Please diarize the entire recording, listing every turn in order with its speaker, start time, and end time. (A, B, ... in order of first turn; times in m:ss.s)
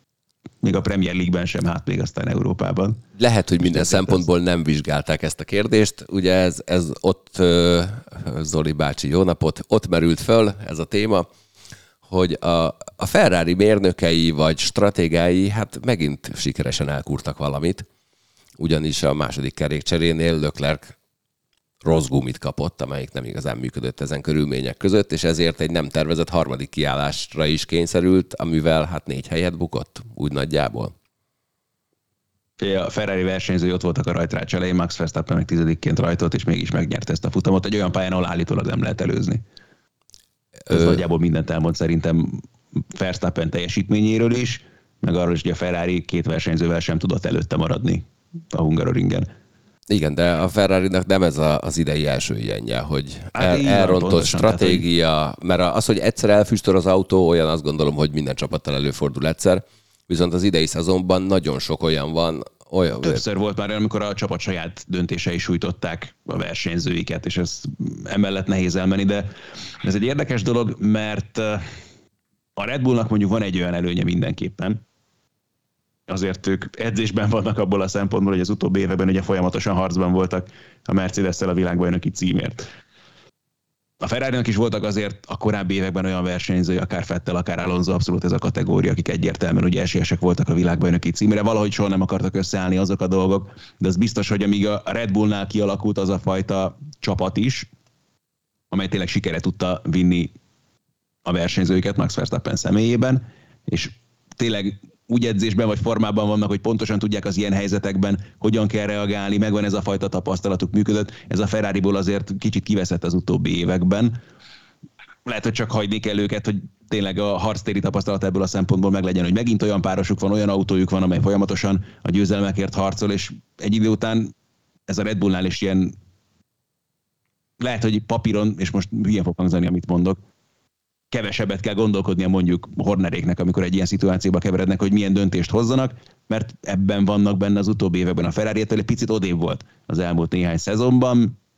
0:00.6-0:03.0 A
0:03.2-0:11.2 B
0:03.7-0:04.2 A
0:12.0-0:17.8 B
0:18.6-0:20.9 B
0:21.8-0:30.9 B
0:32.6-0:39.4 A
0:40.6-0:41.0 B
0:40.7-0:49.3 A
0:49.9-1:03.2 B
0:53.3-0:54.8 A
1:03.0-1:09.3 A
1:09.8-1:11.6 A
1:12.6-1:14.8 A
1:16.1-1:22.6 A
1:24.0-1:37.7 A
1:38.7-1:40.3 A
1:41.2-1:54.1 A
1:55.2-2:04.3 A
2:04.9-2:05.9 A
2:07.6-2:10.2 A
2:11.1-2:21.4 A